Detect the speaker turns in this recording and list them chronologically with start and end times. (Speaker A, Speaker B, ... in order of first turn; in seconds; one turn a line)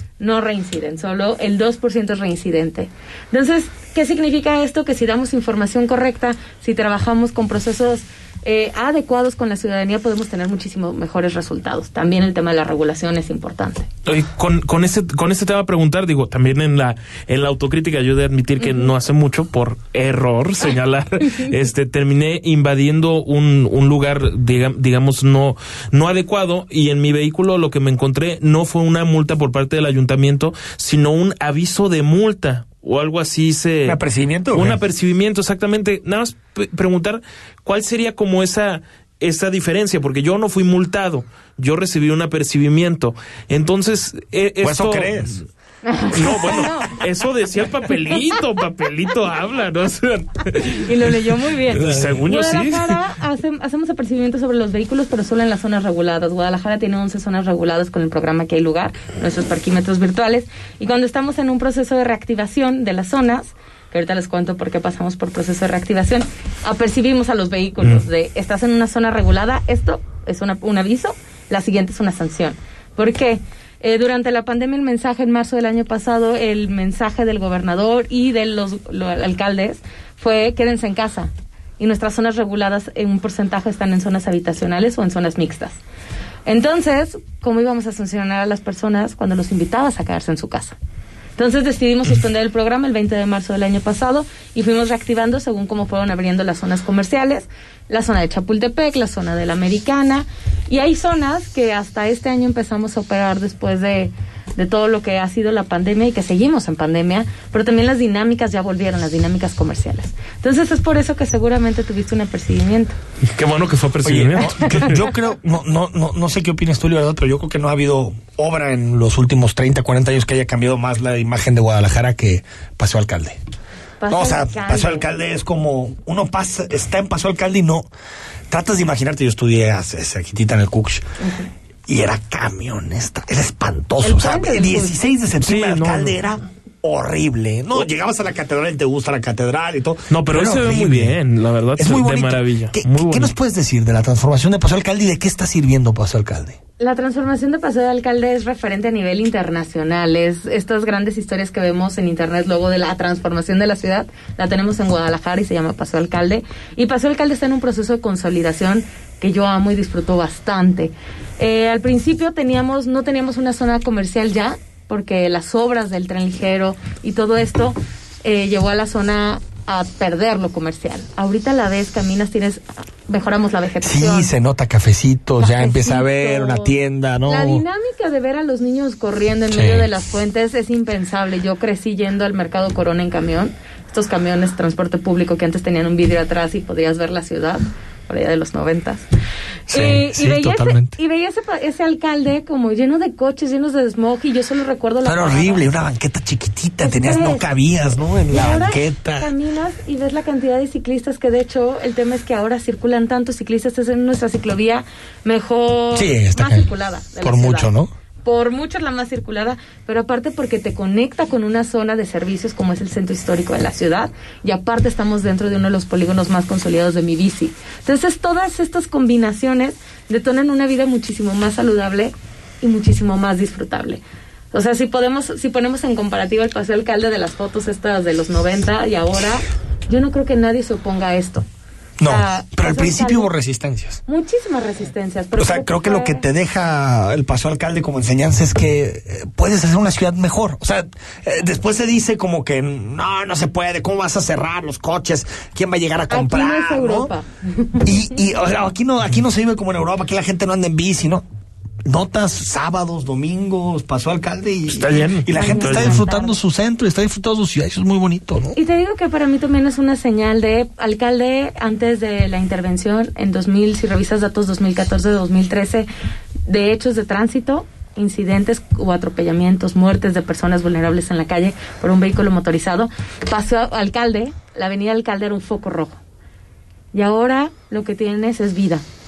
Speaker A: 0.2-13.9
Speaker B: 14.1-34.0
Speaker A: 18.6-18.9
Speaker C: 33.9-34.8
Speaker B: 34.5-45.4
Speaker C: 44.6-45.4
Speaker A: 45.9-46.9
Speaker C: 46.1-46.9
Speaker B: 46.1-50.9
Speaker A: 50.9-85.8
Speaker B: 51.7-53.0
Speaker C: 51.8-52.1
Speaker A: 86.5-90.8
Speaker A: 91.4-113.0
Speaker B: 113.3-115.0
Speaker C: 114.0-123.4
Speaker A: 124.0-125.1
Speaker C: 124.1-127.9
Speaker C: 128.5-131.1
Speaker A: 131.2-131.4
Speaker C: 131.9-141.2
Speaker A: 134.0-135.0
Speaker B: 135.4-136.2
Speaker B: 140.1-143.3
Speaker C: 141.8-146.6
Speaker A: 146.8-174.3
Speaker C: 173.8-177.6
Speaker A: 175.4-176.7
Speaker A: 177.3-189.0
Speaker C: 179.5-179.9
Speaker C: 189.7-191.0
Speaker A: 189.7-195.6
Speaker C: 195.0-199.3
Speaker A: 196.8-197.4
Speaker A: 198.3-207.7
Speaker C: 205.9-206.7
Speaker C: 207.2-207.9
Speaker A: 208.2-224.0
Speaker A: 224.5-231.4
Speaker C: 232.0-234.0
Speaker A: 232.0-233.3
Speaker A: 234.1-236.2
Speaker C: 235.4-247.1
Speaker A: 246.1-248.2
Speaker C: 247.8-251.2
Speaker C: 251.9-258.6
Speaker B: 254.7-256.0
Speaker A: 255.3-256.4
Speaker A: 258.6-265.9
Speaker A: 266.5-276.0
Speaker A: 276.9-278.8